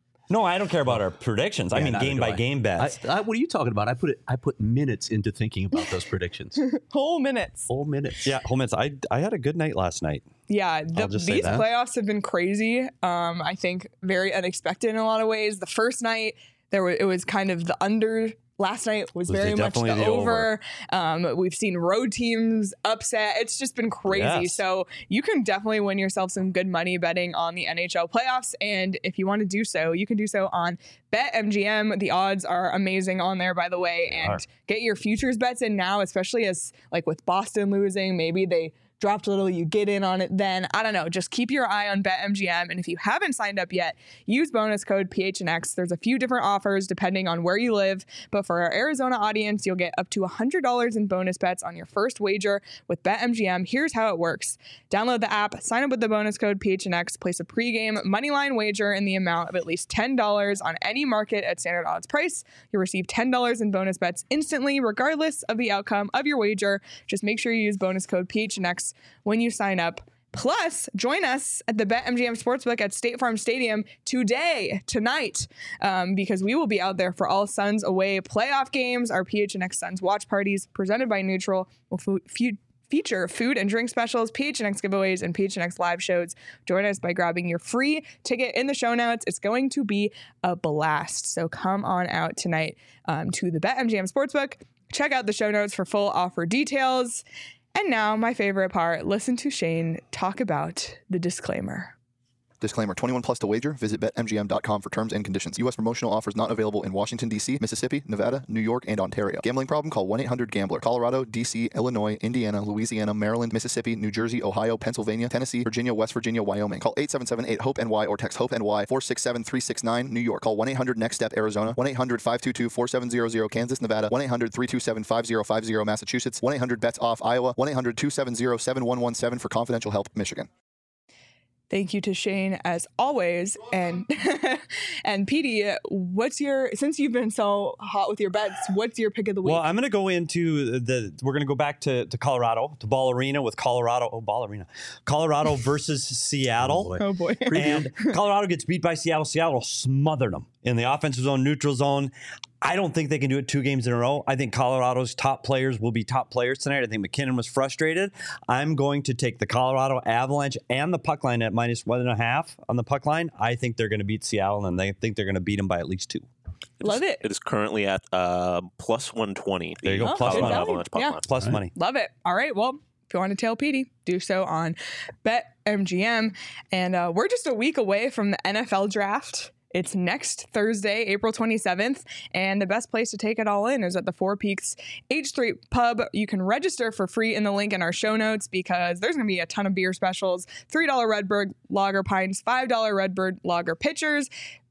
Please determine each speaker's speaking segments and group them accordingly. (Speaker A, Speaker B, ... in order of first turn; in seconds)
Speaker A: 0.3-3.0, 8.2-10.3, 11.1-11.6, 19.3-20.5, 24.1-24.6, 34.1-34.4, 139.4-146.9, 147.5-166.3, 169.8-171.7
Speaker B: 1.7-6.6, 7.7-8.3, 11.0-11.7, 146.6-147.9
Speaker C: 6.6-7.7, 10.5-97.2, 97.8-101.9, 131.7-139.7, 147.0-148.2, 166.8-167.2, 170.0-171.2, 171.7-194.3
Speaker D: 102.6-130.5
Speaker E: 167.2-171.2